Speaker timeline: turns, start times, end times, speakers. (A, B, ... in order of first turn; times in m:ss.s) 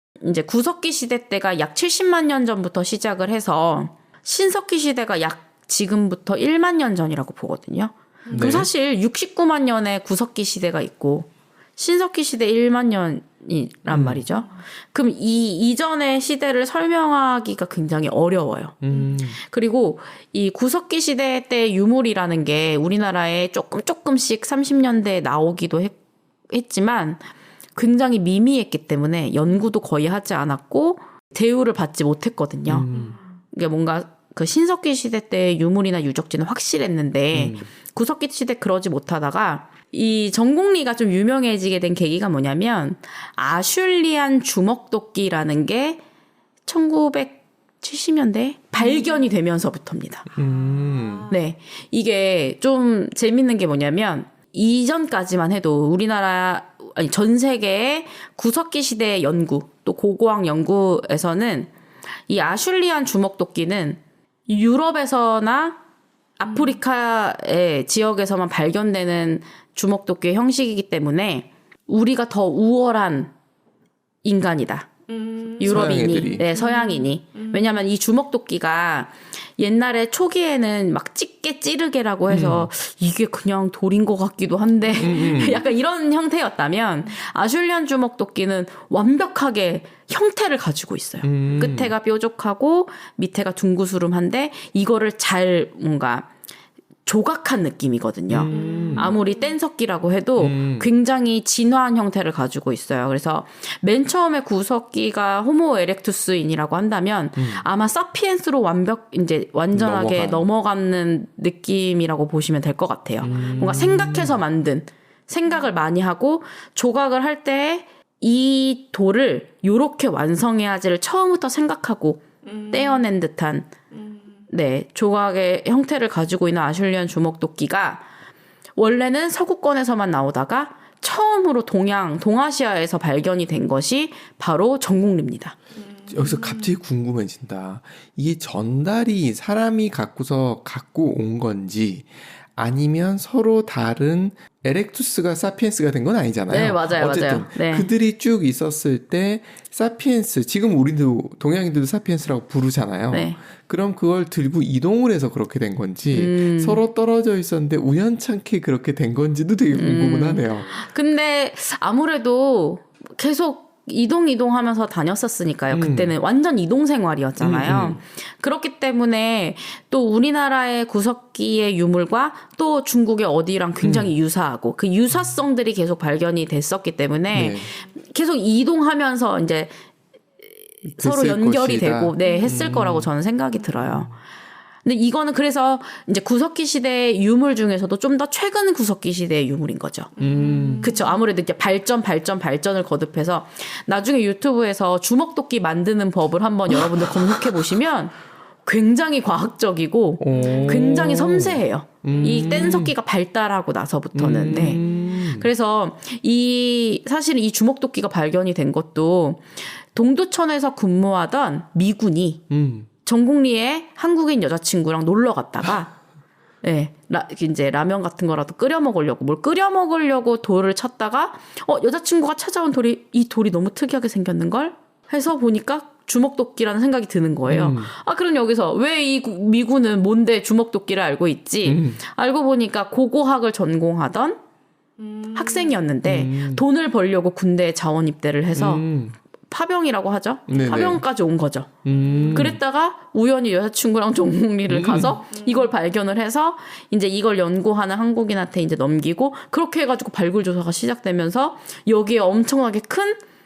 0:00.2-0:26.0 A
0:08.3-0:08.5 B
0:08.3-0:08.7 C
0:13.9-0:14.2 C
0:18.8-0:19.4 C
0:26.5-0:27.2 A
0:27.8-0:32.9 A
0:32.7-0:33.2 C
0:32.9-0:33.2 B
0:33.5-0:46.0 A
0:37.3-0:37.7 C
0:46.7-0:50.3 A
0:50.4-0:51.3 C
0:50.4-0:51.3 B
0:51.3-1:01.7 A
1:02.3-1:05.8 A
1:06.4-1:13.3 A
1:14.2-1:14.9 A
1:15.1-1:17.8 B
1:15.6-1:36.3 A
1:15.6-1:16.5 C
1:22.3-1:22.7 C
1:25.0-1:25.7 C
1:31.2-1:31.9 C
1:37.1-2:03.7 A
1:38.3-1:39.2 C
1:38.5-1:39.3 B
1:40.4-1:40.9 C
1:47.4-1:47.6 C
1:49.7-1:50.5 C
1:53.2-1:54.4 C
1:53.3-1:53.7 B
2:02.4-2:03.0 B
2:04.5-2:08.0 A
2:08.8-2:15.6 A
2:15.9-2:16.7 B
2:16.1-2:40.8 C
2:26.5-2:27.9 A
2:33.1-2:33.4 A
2:36.1-2:36.8 A
2:39.7-2:59.7 A
2:45.7-2:46.2 C
2:47.4-2:48.0 C
2:53.8-2:54.1 C
2:57.3-2:57.7 C
3:00.9-3:03.1 C
3:00.9-3:04.1 A
3:02.2-3:02.6 B
3:04.8-3:10.1 A
3:10.2-3:11.1 B
3:10.2-3:11.0 C
3:10.8-3:32.4 A
3:16.9-3:17.4 C
3:20.2-3:23.0 C
3:20.3-3:21.0 B
3:24.2-3:25.5 C
3:24.5-3:25.1 B
3:32.5-3:32.9 C
3:33.0-3:35.9 A
3:36.6-3:54.4 A
3:47.5-3:47.9 C
3:51.6-3:52.0 C
3:55.0-3:55.8 B
3:55.3-3:58.9 A
3:56.0-3:56.6 C
3:58.5-3:59.2 C
3:59.5-4:01.7 A
4:00.5-4:01.0 C
4:01.8-4:02.6 C
4:01.9-4:02.4 B
4:02.3-4:13.2 A
4:04.7-4:05.2 C
4:05.3-4:05.7 B